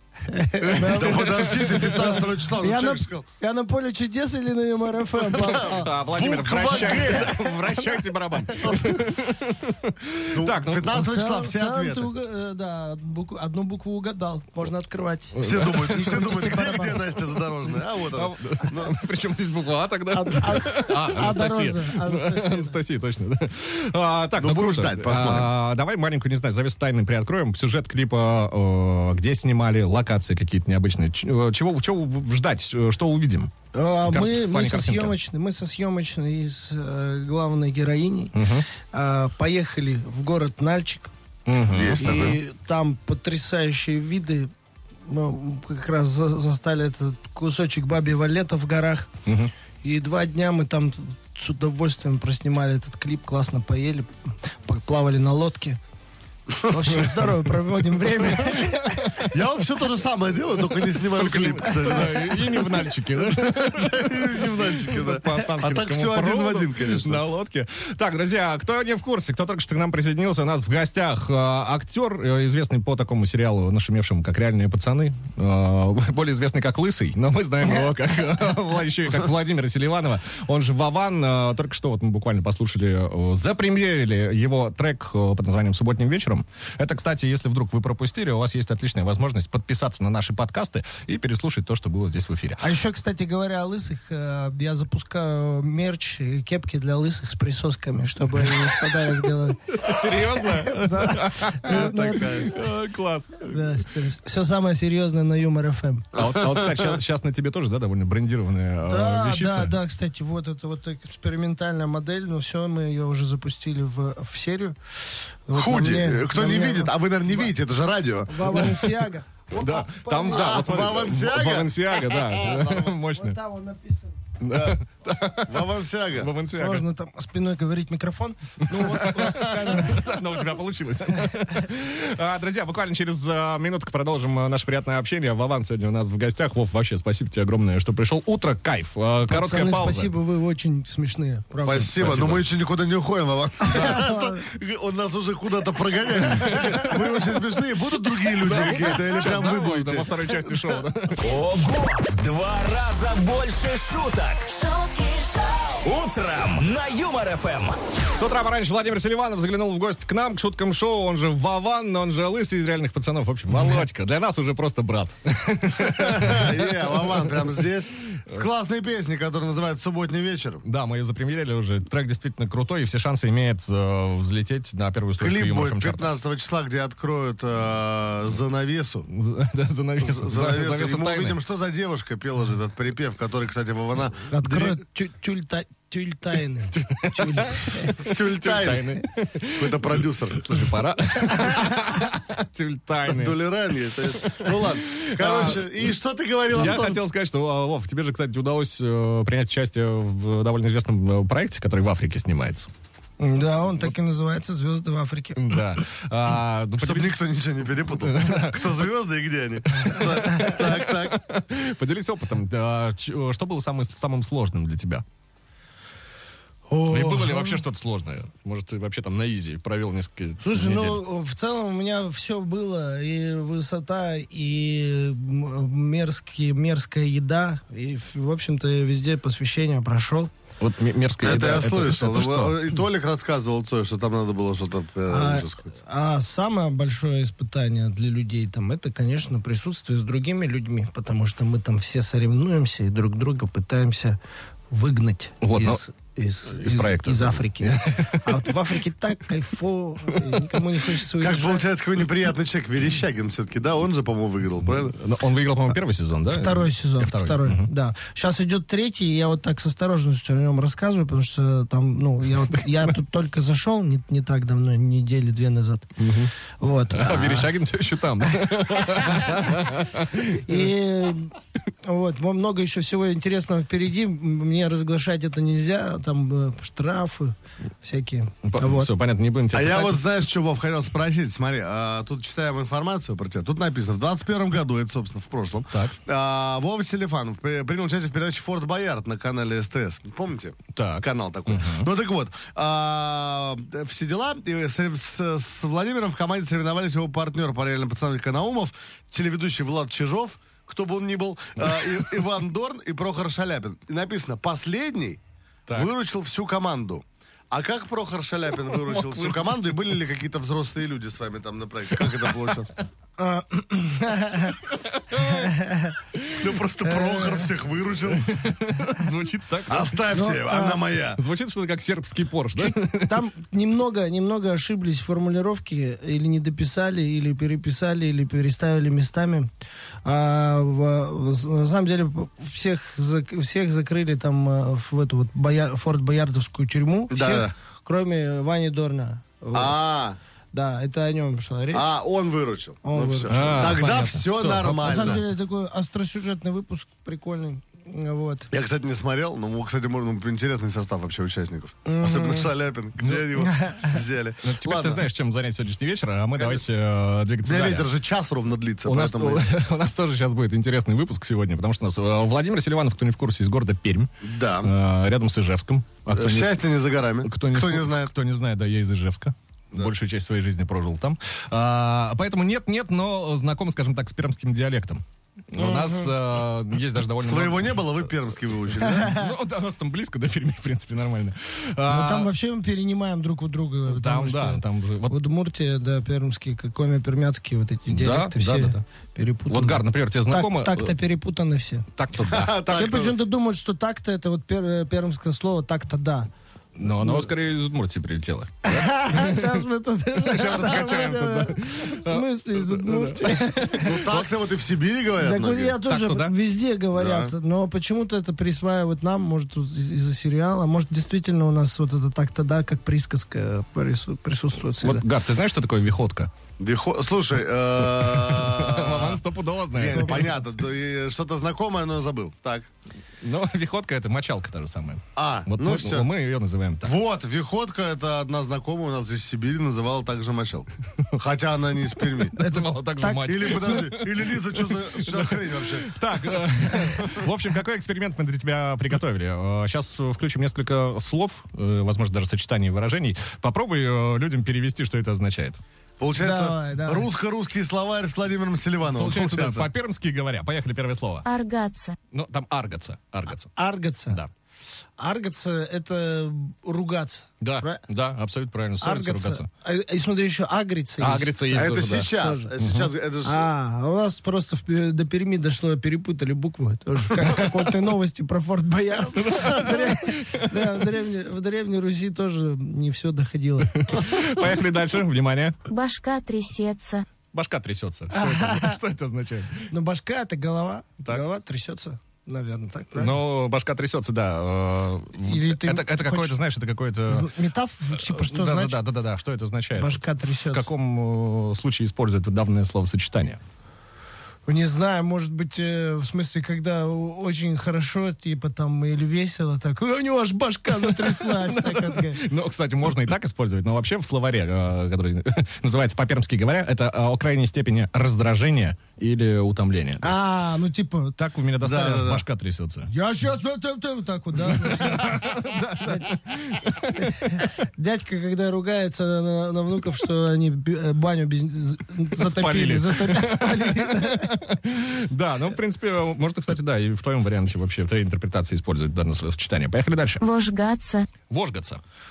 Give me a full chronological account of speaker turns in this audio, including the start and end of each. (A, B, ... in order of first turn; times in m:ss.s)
0:00.2-0:06.0 A
0:00.6-0:02.2 B
0:00.8-0:03.2 C
0:05.2-0:07.5 C
0:05.8-0:11.0 B
0:06.7-0:07.4 A
0:08.7-0:08.9 C
0:10.3-0:12.1 C
0:10.9-0:17.2 A
0:15.3-0:16.2 B
0:15.4-0:19.0 C
0:18.0-0:33.5 B
0:20.1-0:22.8 A
0:24.4-0:25.5 C
0:33.7-0:38.4 A
0:34.1-0:35.1 B
0:38.3-0:38.6 B
0:38.9-0:41.1 A
0:41.4-0:42.1 B
0:41.7-0:42.4 C
0:41.9-0:44.5 A
0:45.1-0:49.1 A
0:49.3-0:49.5 B
0:49.8-0:54.1 A
0:54.6-0:55.8 A
0:56.6-0:59.1 A
0:58.1-0:59.3 B
0:59.2-1:02.9 C
1:00.8-1:32.6 B
1:03.7-1:07.2 C
1:32.6-1:39.6 A
1:38.4-1:38.9 B
1:39.7-1:43.8 B
1:40.4-1:42.5 A
1:42.0-1:42.4 C
1:43.4-1:46.1 A
1:46.1-1:49.8 B
1:46.2-1:46.9 C
1:48.9-1:54.8 A
1:55.4-1:57.5 A
1:55.5-1:58.6 C
1:58.2-2:00.8 A
1:59.6-2:03.4 B
2:00.3-2:02.9 C
2:03.1-2:04.2 A
2:04.4-2:06.8 B
2:05.5-2:06.3 C
2:06.5-2:10.4 A
2:08.6-2:20.1 B
2:19.3-2:22.0 A
2:21.6-2:30.1 C
2:22.0-2:22.4 B
2:23.6-2:24.4 A
2:26.4-2:27.2 B
2:28.3-2:31.3 B
2:31.2-2:34.6 D
2:34.5-2:35.8 E
2:35.7-2:37.8 D
2:38.1-2:47.6 B
2:45.9-2:50.6 C
2:50.6-2:56.1 B
2:55.2-2:59.1 C
2:59.1-3:01.4 B
3:00.0-3:04.8 C
3:04.3-3:08.0 A
3:06.7-3:13.4 B
3:08.0-3:08.9 C
3:09.6-3:10.6 C
3:13.1-3:17.0 C
3:14.2-3:15.7 B
3:16.5-3:22.7 B
3:23.2-3:25.4 A
3:25.3-3:27.1 B
3:26.8-3:31.2 C
3:28.0-3:28.6 B
3:29.7-3:35.0 B
3:36.7-3:37.6 A
3:36.9-3:41.0 B
3:40.4-3:50.3 A
3:50.6-3:52.8 B
3:51.2-3:55.7 C
3:55.1-4:04.2 A
4:04.7-4:11.7 A
4:05.4-4:05.8 B
4:06.5-4:08.5 B
4:10.1-4:10.6 B
4:11.2-4:14.9 C
4:14.7-4:17.7 B
4:16.2-4:25.9 A
4:26.0-4:26.3 B
4:26.6-4:27.6 A
4:26.9-4:30.6 B
4:28.4-4:29.3 A
4:30.2-4:38.9 A
4:38.4-4:40.0 B
4:39.5-5:05.2 C
4:45.7-4:46.0 B
4:50.7-4:51.9 B
5:01.6-5:01.9 B
5:05.7-5:12.7 C
5:08.6-5:10.0 B
5:12.0-5:12.5 B
5:13.2-5:14.6 A
5:14.7-5:15.5 B
5:15.1-5:16.0 A
5:16.4-5:18.4 C
5:16.9-5:17.5 A
5:18.2-5:20.0 B
5:19.7-5:21.2 C
5:20.1-5:20.8 A
5:21.2-5:23.2 B
5:22.5-5:29.5 A
5:30.0-5:39.8 A
5:37.1-5:37.5 C
5:39.5-5:40.2 C
5:40.5-5:41.9 A
5:41.7-5:45.2 C
5:42.8-5:43.8 A
5:43.3-5:45.2 B
5:44.8-5:48.5 A
5:48.5-5:55.0 C
5:51.8-5:52.5 A
5:53.0-5:53.4 B
5:53.4-5:54.0 A
5:54.4-5:57.9 B
5:56.3-5:56.6 C
5:57.4-5:59.5 C
5:58.8-6:04.1 B
6:04.2-6:04.7 C
6:04.6-6:06.6 B
6:06.1-6:08.1 C
6:07.2-6:17.9 B
6:17.2-6:19.1 C
6:19.0-6:22.3 B
6:21.8-6:31.9 A
6:23.8-6:25.2 B
6:27.9-6:28.8 B
6:29.5-6:30.9 B
6:31.9-6:32.9 B
6:32.3-6:33.2 C
6:32.6-6:36.3 A
6:36.8-6:39.6 B
6:36.9-6:37.3 A
6:38.6-6:44.1 A
6:40.2-6:44.2 B
6:43.8-6:45.8 C
6:45.2-6:55.0 A
6:45.8-6:46.3 B
6:46.9-6:47.3 C
6:54.8-6:56.3 B
6:56.6-6:59.2 C
6:57.8-7:00.3 B
6:59.7-7:02.7 C
6:59.8-7:00.4 A
7:03.2-7:06.9 B
7:05.2-7:06.1 C
7:06.8-7:12.3 C
7:12.3-7:25.6 B
7:12.4-7:13.6 A
7:13.2-7:15.9 C
7:26.0-7:29.7 C
7:26.2-7:27.1 A
7:28.9-7:31.2 B
7:31.2-7:32.0 E
7:32.1-7:33.5 B
7:33.5-7:34.2 A
7:35.0-7:37.8 A
7:37.4-7:39.5 B
7:38.8-7:42.5 A
7:41.0-7:42.9 B
7:41.5-7:43.5 C
7:43.2-7:54.0 A
7:49.1-7:50.9 B
7:53.6-7:55.6 B
7:55.6-7:57.0 E
7:57.3-7:59.7 B
7:58.1-7:58.8 A
7:59.7-8:03.2 A
8:02.9-8:07.3 B
8:05.2-8:06.4 A
8:07.1-8:08.8 A
8:07.9-8:13.4 B
8:09.7-8:10.7 A
8:14.4-8:22.2 A
8:20.8-8:30.2 B
8:30.0-8:31.2 A
8:31.2-8:32.9 B
8:31.6-8:32.2 C
8:32.9-8:36.2 A
8:34.5-8:37.3 B
8:37.0-8:44.4 A
8:42.2-8:50.2 B
8:50.2-8:51.1 E
8:51.2-8:51.8 B